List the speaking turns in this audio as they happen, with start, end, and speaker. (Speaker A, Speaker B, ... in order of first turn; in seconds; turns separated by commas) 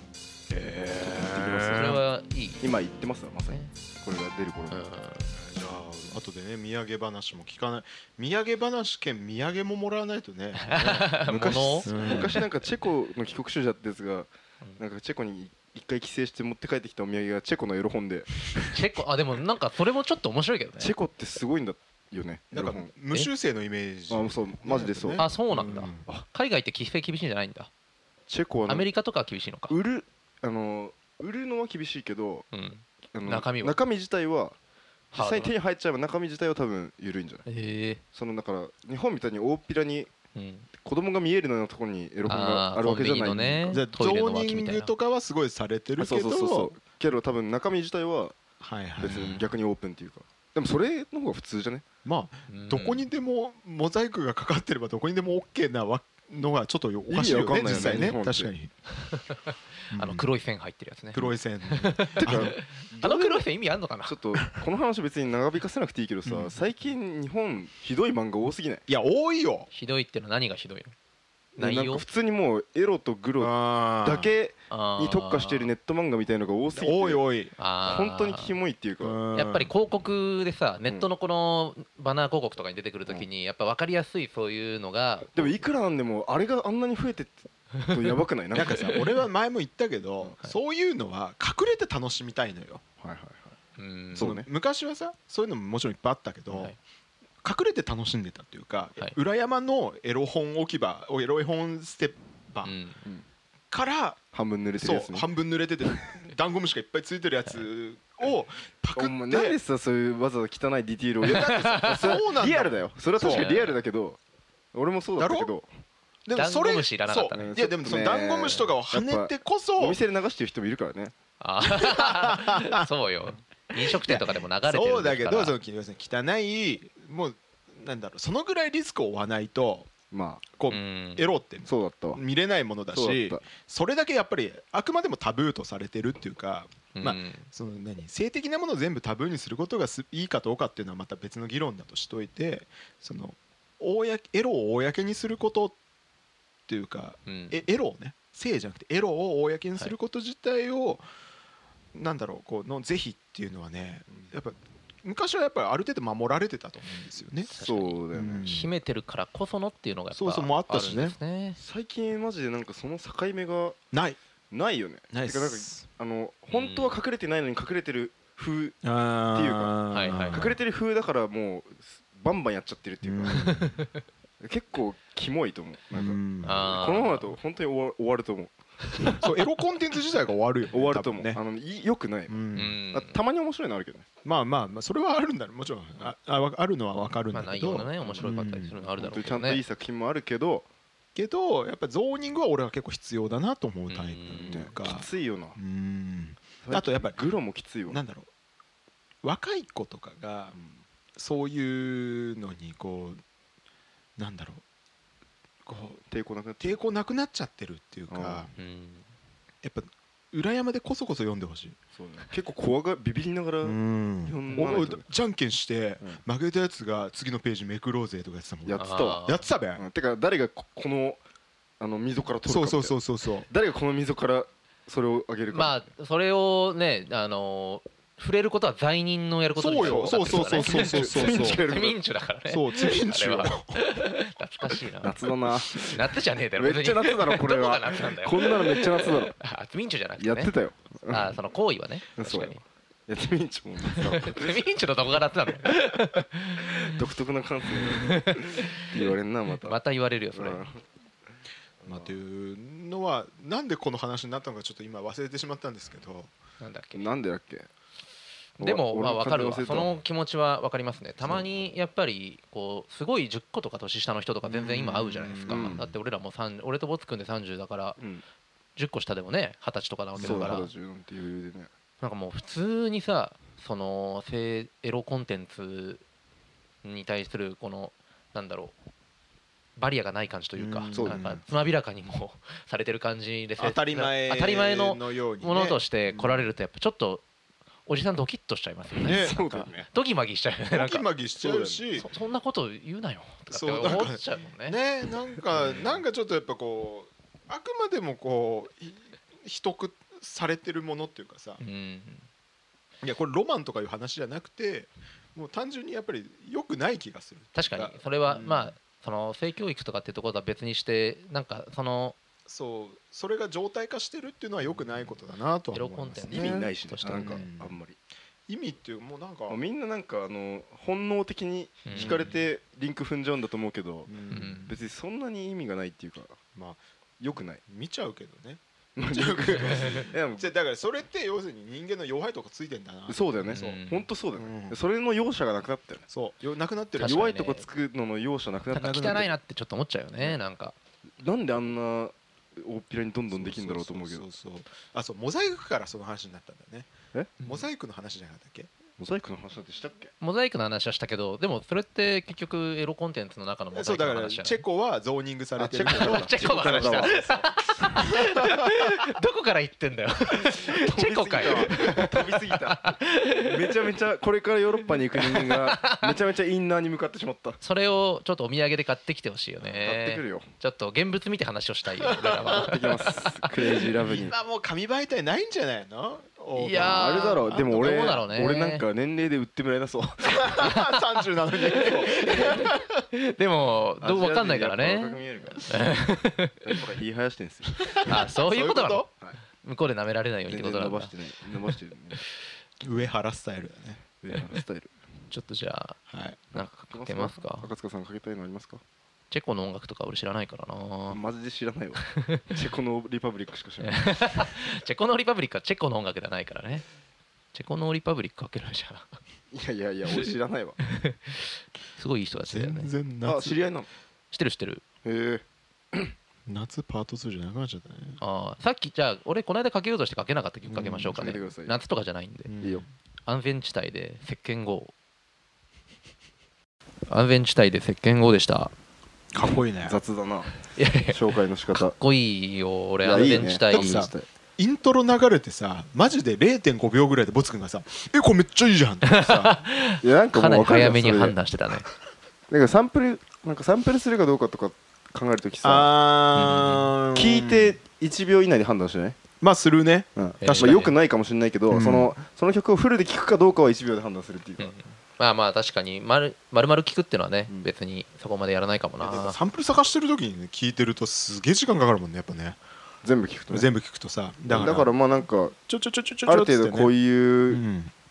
Speaker A: 0.5-1.9, Speaker B: 0.9-2.0, Speaker C: 1.7-2.6, Speaker B: 2.6-4.9, Speaker C: 4.7-5.3, Speaker A: 5.3-12.4, Speaker C: 10.6-12.4, Speaker B: 11.3-18.7, Speaker C: 18.7-20.9, Speaker B: 20.8-22.9, Speaker A: 22.5-26.1, Speaker B: 24.1-25.2, Speaker C: 25.2-27.7, Speaker B: 28.3-28.9, Speaker C: 28.7-29.7, Speaker B: 29.7-32.5, Speaker C: 32.5-33.8, Speaker B: 33.1-34.6, Speaker B: 35.1-37.5, Speaker C: 35.1-35.5, Speaker C: 37.5-38.0, Speaker B: 38.1-40.1, Speaker C: 40.3-40.7, Speaker B: 40.8-43.8, Speaker C: 42.3-44.9, Speaker A: 43.7-46.8, Speaker B: 46.0-48.4, Speaker A: 48.6-49.4, Speaker B: 49.0-51.8, Speaker C: 49.1-49.4, Speaker A: 52.0-58.7, Speaker C: 52.5-53.0, Speaker B: 57.1-58.5, Speaker C: 59.0-64.2, Speaker A: 59.9-60.3, Speaker A: 61.1-63.4, Speaker B: 62.2-62.5, Speaker B: 64.0-68.8, Speaker A: 66.2-66.6, Speaker A: 68.9-69.7, Speaker C: 69.7-70.9, Speaker C: 71.6-72.0, Speaker B: 71.6-77.2, Speaker A: 73.4-74.3, Speaker C: 74.7-75.7, Speaker A: 76.7-77.5, Speaker C: 77.6-78.5, Speaker B: 77.8-79.2, Speaker A: 79.0-79.7, Speaker C: 79.3-85.3, Speaker B: 85.3-88.8, Speaker A: 88.5-92.8, Speaker C: 88.7-89.0, Speaker B: 93.0-93.5, Speaker C: 93.8-94.3, Speaker B: 94.2-94.5, Speaker A: 94.2-96.7, Speaker C: 96.5-96.8, Speaker A: 97.4-102.8, Speaker C: 102.6-103.0, Speaker A: 103.7-104.2, Speaker B: 104.3-105.3, Speaker A: 104.8-109.6, Speaker B: 109.0-114.2, Speaker C: 111.3-112.2, Speaker A: 111.4-113.5, Speaker C: 113.2-113.8, Speaker B: 114.7-115.7, Speaker A: 115.2-115.5, Speaker A: 116.2-120.0, Speaker C: 116.3-117.5, Speaker B: 117.3-121.1, Speaker C: 121.4-125.5, Speaker A: 121.6-122.9, Speaker A: 123.7-129.9, Speaker B: 130.1-130.5, Speaker A: 130.5-145.8, Speaker C: 130.7-131.3, Speaker B: 131.6-132.2, Speaker B: 132.9-133.4, Speaker C: 136.9-137.5, Speaker A: 146.7-151.0, Speaker C: 147.2-147.6, Speaker A: 151.9-157.5, Speaker C: 157.5-161.6, Speaker B: 157.5-158.5, Speaker A: 158.1-158.7, Speaker A: 160.1-161.2, Speaker B: 161.6-163.8, Speaker A: 163.9-164.2, Speaker B: 164.5-168.8, Speaker A: 165.1-165.8, Speaker C: 166.5-167.0, Speaker A: 168.8-170.6, Speaker B: 169.3-169.8, Speaker C: 169.9-170.5, Speaker B: 170.3-173.7, Speaker A: 173.0-173.8, Speaker C: 173.3-173.9, Speaker B: 174.4-179.2, Speaker A: 175.9-176.6, Speaker C: 176.4-177.3, Speaker A: 179.2-181.4, Speaker B: 180.7-184.1, Speaker A: 182.3-182.8, Speaker C: 182.5-183.2, Speaker A: 184.2-188.8, Speaker C: 187.3-189.6, Speaker B: 188.0-188.4, Speaker B: 188.9-190.7, Speaker A: 191.1-197.2, Speaker C: 193.9-194.7, Speaker B: 194.3-195.6, Speaker B: 196.6-198.0, Speaker A: 197.9-198.3, Speaker A: 199.2-200.5, Speaker B: 200.5-200.8, Speaker A: 201.2-203.2, Speaker A: 204.2-204.6, Speaker A: 205.7-206.0, Speaker B: 206.1-206.8, Speaker A: 206.6-208.5, Speaker B: 208.1-208.5, Speaker C: 208.6-209.1, Speaker A: 209.6-211.8, Speaker B: 211.9-215.0, Speaker A: 213.6-219.8, Speaker B: 218.7-219.2, Speaker C: 218.8-219.5, Speaker B: 219.8-221.2, Speaker B: 221.8-223.0, Speaker A: 222.4-223.5, Speaker B: 223.5-225.9, Speaker C: 225.5-235.2, Speaker A: 229.6-231.6, Speaker B: 229.8-232.0, Speaker A: 232.5-233.8, Speaker B: 235.0-239.3, Speaker C: 235.8-240.5, Speaker B: 240.2-241.3, Speaker C: 241.1-242.6, Speaker B: 242.2-244.8, Speaker C: 243.9-247.0, Speaker B: 246.7-249.8, Speaker C: 247.8-250.6, Speaker B: 250.3-250.8, Speaker B: 251.8-252.1, Speaker A: 251.8-256.3, Speaker C: 256.6-257.1, Speaker B: 256.9-257.7, Speaker C: 258.6-268.0, Speaker B: 258.6-259.9, Speaker A: 264.4-265.8, Speaker B: 265.5-265.9, Speaker B: 268.0-268.2, Speaker C: 268.8-270.7, Speaker A: 270.1-270.6, Speaker B: 270.2-271.7, Speaker C: 272.0-276.0, Speaker C: 276.8-278.7, Speaker C: 279.8-287.2, Speaker A: 280.6-281.4, Speaker B: 280.9-281.4, Speaker A: 283.6-286.4, Speaker C: 287.9-291.1, Speaker B: 289.0-289.9, Speaker A: 290.7-292.1, Speaker B: 291.4-291.8, Speaker C: 291.9-294.8, Speaker A: 293.5-301.6, Speaker C: 301.6-302.3, Speaker A: 303.0-308.7, Speaker C: 307.5-312.1, Speaker A: 312.4-317.8, Speaker C: 315.7-317.5, Speaker B: 316.3-318.0, Speaker A: 318.5-319.6, Speaker B: 319.5-326.4, Speaker C: 321.9-322.3, Speaker A: 321.9-322.3, Speaker A: 324.1-324.7, Speaker C: 324.3-324.7, Speaker A: 326.5-326.8, Speaker B: 327.2-327.6, Speaker A: 327.6-333.8, Speaker B: 328.9-330.5, Speaker C: 329.6-330.0, Speaker B: 333.1-336.1, Speaker C: 333.4-334.1, Speaker A: 334.4-334.8, Speaker A: 336.1-337.2, Speaker C: 337.0-337.6, Speaker B: 337.0-339.3, Speaker C: 338.7-340.7, Speaker B: 341.2-344.2, Speaker A: 343.3-346.9, Speaker B: 347.1-347.5, Speaker A: 347.4-348.7, Speaker B: 349.0-350.1, Speaker C: 350.2-354.6, Speaker A: 353.7-358.7, Speaker B: 355.6-357.4, Speaker C: 355.9-363.7, Speaker B: 360.6-367.6, Speaker C: 365.2-366.1, Speaker C: 367.6-373.5, Speaker B: 369.7-370.5, Speaker A: 372.0-372.6, Speaker B: 372.5-374.4, Speaker A: 374.0-378.2, Speaker C: 376.5-378.8, Speaker B: 376.8-380.6, Speaker A: 380.4-383.0, Speaker C: 380.6-380.9, Speaker C: 381.7-386.6, Speaker B: 382.3-382.7, Speaker B: 384.0-385.8, Speaker B: 386.6-388.1, Speaker A: 387.9-389.1, Speaker C: 388.0-389.1, Speaker C: 389.6-391.1, Speaker B: 390.5-392.2, Speaker A: 392.8-394.0, Speaker B: 394.2-394.9, Speaker C: 395.3-396.0, Speaker A: 396.1-396.4, Speaker C: 396.5-397.7, Speaker B: 396.9-398.8, Speaker C: 399.3-401.2, Speaker B: 401.1-404.5, Speaker C: 402.1-402.4, Speaker C: 403.8-406.8, Speaker C: 407.5-409.2, Speaker B: 409.5-410.8, Speaker C: 410.9-412.9, Speaker A: 412.4-413.6, Speaker B: 413.2-413.9, Speaker C: 414.3-414.8, Speaker B: 415.0-416.1, Speaker A: 416.4-418.2, Speaker C: 418.2-422.5, Speaker A: 420.7-421.2, Speaker B: 421.1-421.7, Speaker A: 422.5-422.9, Speaker C: 423.2-424.9, Speaker C: 427.1-428.7, Speaker A: 429.3-430.0, Speaker B: 429.8-430.5, Speaker C: 430.8-431.2, Speaker B: 431.1-431.9, Speaker C: 431.7-434.0, Speaker B: 433.0-434.3, Speaker A: 433.7-439.6, Speaker C: 439.1-441.9, Speaker B: 440.0-441.4, Speaker B: 442.5-445.9, Speaker A: 445.6-447.8, Speaker C: 446.3-446.9, Speaker B: 447.1-449.2, Speaker A: 449.4-450.8, Speaker B: 450.1-454.7, Speaker C: 450.4-450.9, Speaker A: 451.7-452.1, Speaker C: 454.6-459.4, Speaker A: 459.0-462.6, Speaker B: 463.0-463.7, Speaker A: 463.5-464.9, Speaker B: 464.5-465.6, Speaker A: 465.6-466.9, Speaker B: 466.2-467.6, Speaker A: 467.5-467.9